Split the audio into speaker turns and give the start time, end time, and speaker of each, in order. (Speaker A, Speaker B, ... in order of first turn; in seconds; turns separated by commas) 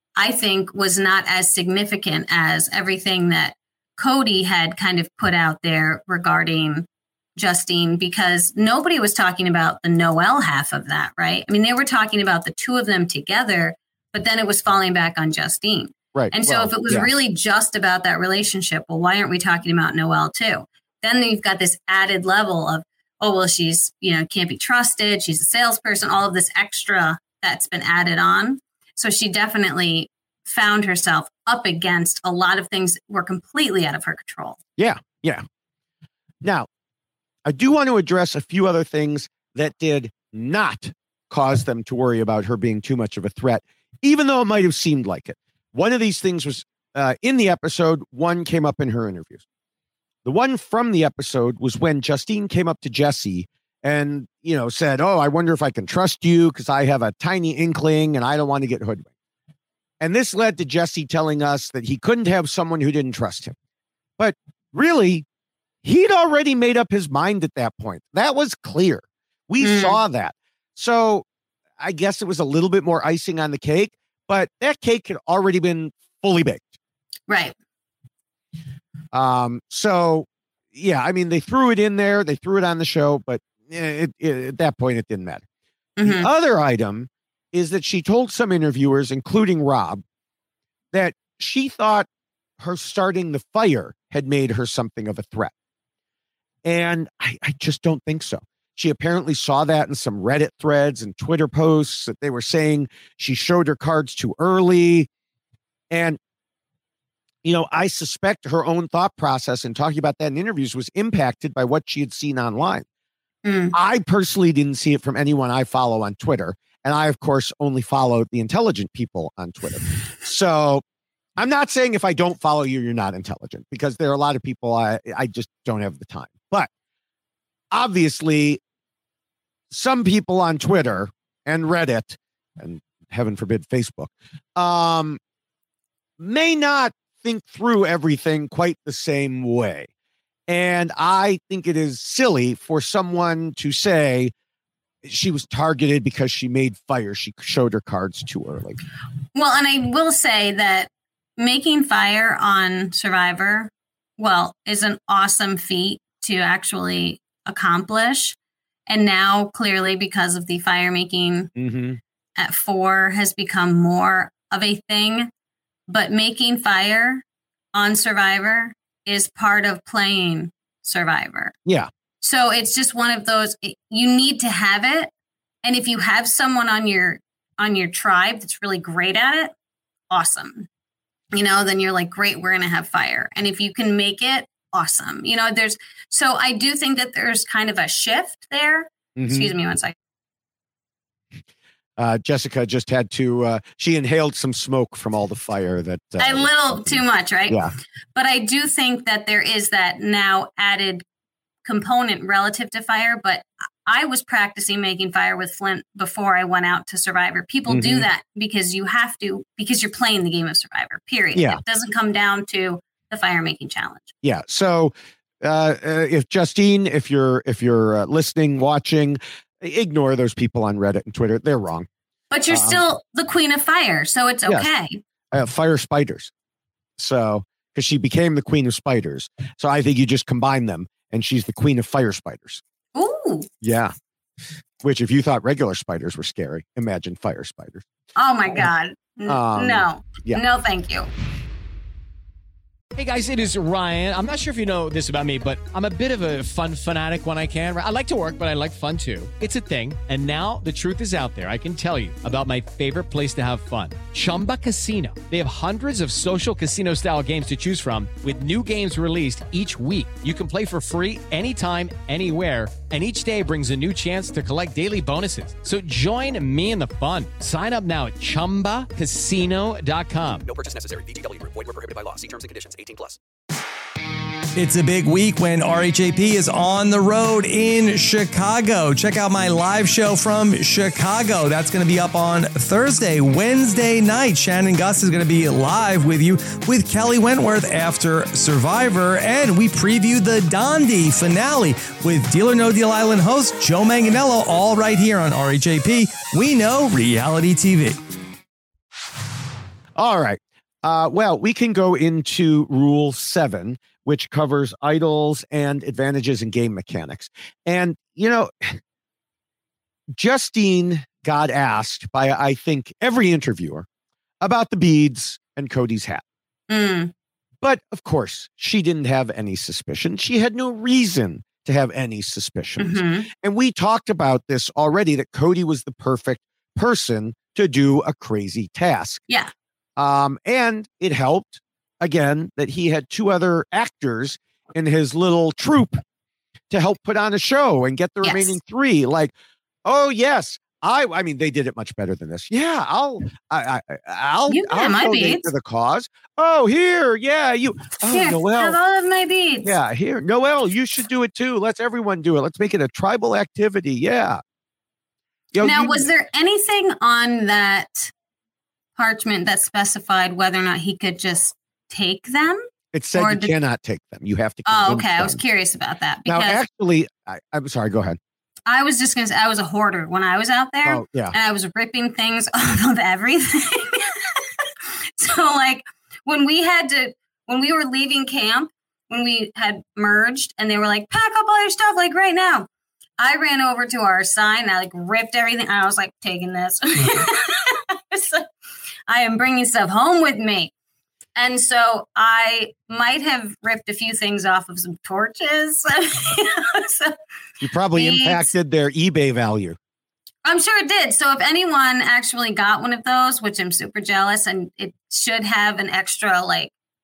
Speaker A: 0.2-34.6, Speaker B: 16.1-17.1, Speaker B: 34.8-35.4, Speaker B: 36.4-36.7, Speaker B: 37.4-49.4, Speaker B: 50.2-59.1, Speaker B: 60.0-63.5, Speaker B: 64.2-65.2, Speaker B: 65.8-71.2, Speaker A: 69.6-70.0, Speaker B: 71.8-76.8, Speaker A: 77.3-77.5, Speaker B: 79.1-85.4, Speaker A: 86.0-86.3, Speaker B: 86.0-90.0, Speaker B: 90.9-92.1, Speaker B: 92.6-95.5, Speaker B: 96.6-105.1, Speaker B: 105.9-106.2, Speaker B: 107.4-112.8, Speaker A: 113.4-113.7, Speaker B: 113.7-120.8, Speaker B: 121.4-126.7, Speaker B: 127.7-128.6, Speaker B: 129.7-135.2, Speaker B: 136.2-139.9, Speaker B: 140.5-144.3, Speaker B: 145.0-148.8, Speaker A: 149.3-158.3, Speaker A: 158.9-161.5, Speaker B: 161.6-162.0, Speaker A: 162.4-165.3, Speaker A: 165.9-171.5, Speaker B: 171.6-171.9, Speaker A: 172.2-175.1, Speaker A: 175.6-179.5, Speaker A: 180.1-180.7, Speaker A: 181.3-189.9, Speaker B: 189.2-189.5, Speaker B: 192.0-197.7, Speaker A: 196.2-197.6, Speaker A: 198.1-201.0, Speaker A: 201.6-214.1, Speaker B: 207.7-208.1, Speaker B: 211.3-211.6, Speaker B: 214.2-221.9, Speaker A: 222.3-225.0, Speaker B: 222.5-222.8, Speaker B: 225.3-226.3, Speaker B: 227.0-232.6, Speaker A: 232.9-233.5, Speaker B: 233.6-233.9, Speaker B: 234.8-237.8, Speaker A: 238.2-241.1, Speaker B: 239.2-240.4, Speaker C: 242.9-270.4, Speaker D: 270.4-273.2, Speaker E: 274.6-298.0, Speaker B: 299.9-308.8, Speaker B: 310.1-313.9, Speaker B: 314.4-316.2, Speaker A: 316.7-317.1, Speaker B: 317.6-329.2, Speaker A: 322.8-323.3, Speaker B: 330.0-336.0, Speaker B: 336.7-339.3, Speaker A: 338.2-338.6, Speaker B: 339.8-348.8, Speaker A: 344.5-345.5, Speaker A: 348.1-349.8, Speaker B: 349.6-354.4, Speaker B: 355.5-356.1, Speaker A: 355.6-358.1, Speaker A: 358.9-362.6, Speaker B: 362.9-365.4, Speaker A: 363.1-363.5, Speaker A: 364.6-366.6, Speaker B: 366.2-368.2, Speaker A: 368.7-374.1, Speaker B: 370.8-371.3, Speaker A: 375.2-382.7, Speaker A: 383.2-388.4, Speaker A: 389.1-390.7, Speaker A: 391.4-397.1, Speaker B: 397.6-399.8, Speaker A: 397.9-398.5, Speaker A: 400.4-406.7